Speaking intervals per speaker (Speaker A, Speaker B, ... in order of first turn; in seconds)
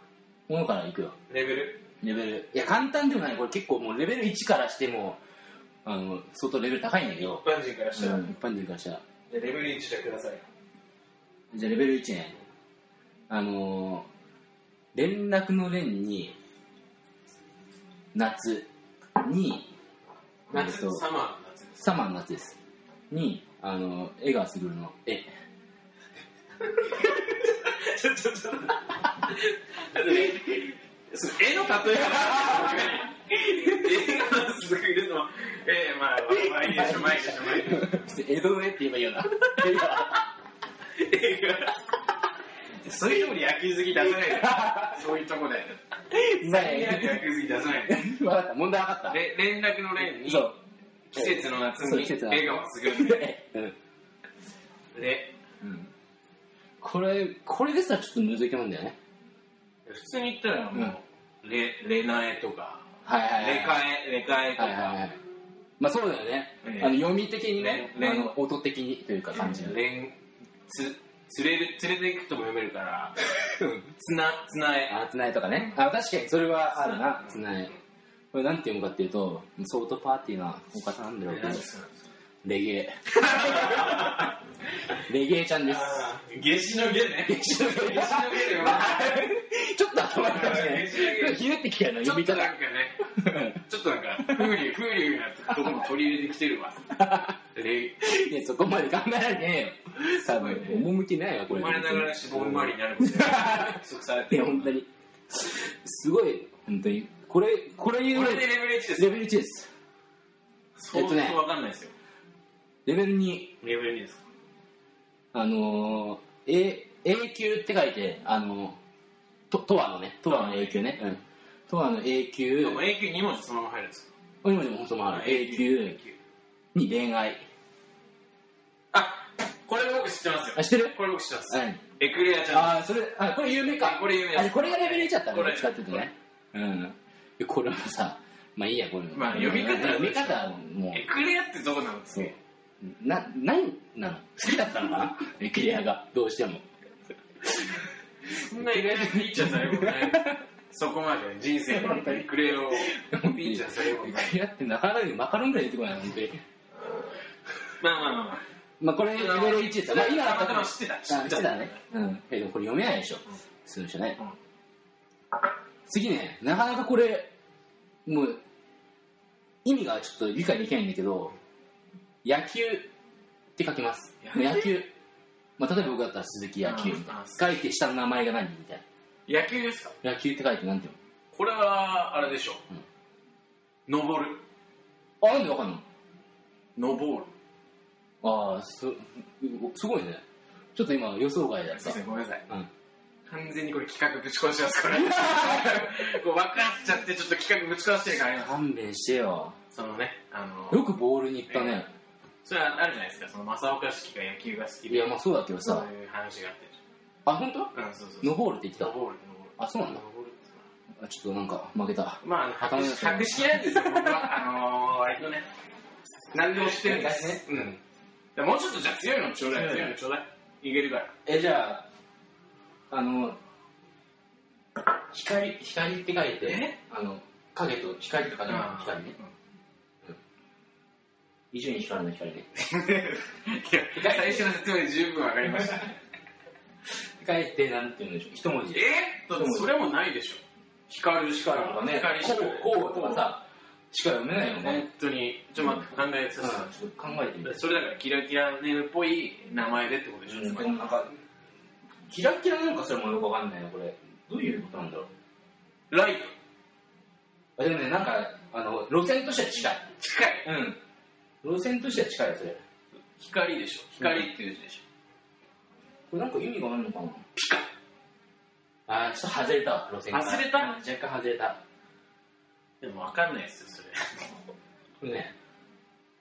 Speaker A: 0.5-1.1, 2.0-5.2, 5.8-7.4, 8.0-9.0, 11.5-12.3, 13.3-14.1, 14.9-16.4, 18.1-19.7, 20.5-21.1, 21.8-22.6, 23.1-25.3, 32.3-32.7, 33.4-34.2, 36.3-40.2, 44.2-44.9, 46.1-47.3, 47.9-49.2, 50.1-50.6, 51.1-53.7, 55.6-55.9, 56.8-59.0, 63.0-63.9, 64.6-65.2, 65.8-69.8, 74.9-77.7, 78.3-81.7, 82.4-84.3, 84.9-86.0, 87.2-93.6, 94.2-94.6, 96.9-97.3, 98.0-109.7, 110.9-111.4, 112.8-113.5, 115.3-118.8, 119.5-122.8, 124.4-126.0, 126.7-127.4, 130.6-131.0, 131.5-131.8, 132.5-141.1, 142.8-146.7, 148.3-150.4, 151.7-156.4, 158.8-164.2, 165.8-167.3, 168.1-168.4, 169.6-171.3, 172.2-172.9, 173.6-174.9, 175.6-178.8, 180.0-181.0, 185.2-185.8, 188.2-190.2, 190.7-192.7, 195.0-195.8, 198.3-199.6, 200.7-201.9, 204.9-205.9, 207.2-208.9, 209.6-210.0, 211.0-214.3, 216.6-217.7, 219.5-219.9, 221.2-221.8, 222.9-223.4, 225.1-229.2, 231.5-232.5, 233.9-234.5, 237.2-239.7, 241.4-244.9, 245.6-245.9, 246.4-247.7, 250.3-251.2, 252.1-255.1, 257.6-259.9, 260.4-260.8, 261.4-262.6, 264.0-264.5, 266.1-267.3, 268.9-271.6, 275.0-275.3
Speaker B: 1.3-1.8, 7.4-8.3, 9.3-10.4, 20.5-21.8, 27.5-38.0, 41.0-41.7, 42.8-48.1, 49.1-50.5, 51.1-53.3, 54.9-55.3, 59.9-62.8, 63.4-65.0, 66.6-67.0, 67.6-68.3, 69.3-70.2, 70.7-75.0, 76.8-77.3, 81.3-81.9, 83.2-84.3, 85.7-89.2, 90.2-91.4, 92.0-93.0, 93.6-96.8, 97.5-98.0, 100.0-100.8, 101.5-104.7, 108.1-109.2, 110.8-111.9, 113.6-114.2, 120.2-121.0, 122.6-124.1, 125.1-126.2, 128.9-132.8, 133.8-136.1, 139.1-142.4, 148.3-154.4, 157.8-158.4, 159.1-161.8, 176.6-177.4, 179.3-179.9, 181.3-182.6, 183.9-184.4, 186.8-187.3, 191.7-192.4, 193.3-198.6, 199.7-200.8, 201.5-201.8, 202.4-206.8, 207.7-210.6, 212.2-215.4, 216.3-217.8, 218.3-221.1, 226.4-226.7, 228.5-229.3, 232.7-235.9, 238.7-243.3, 244.6-246.7, 247.4-250.8, 255.9-256.3, 260.0-260.5, 263.2-264.8, 270.1-270.8, 272.8-274.3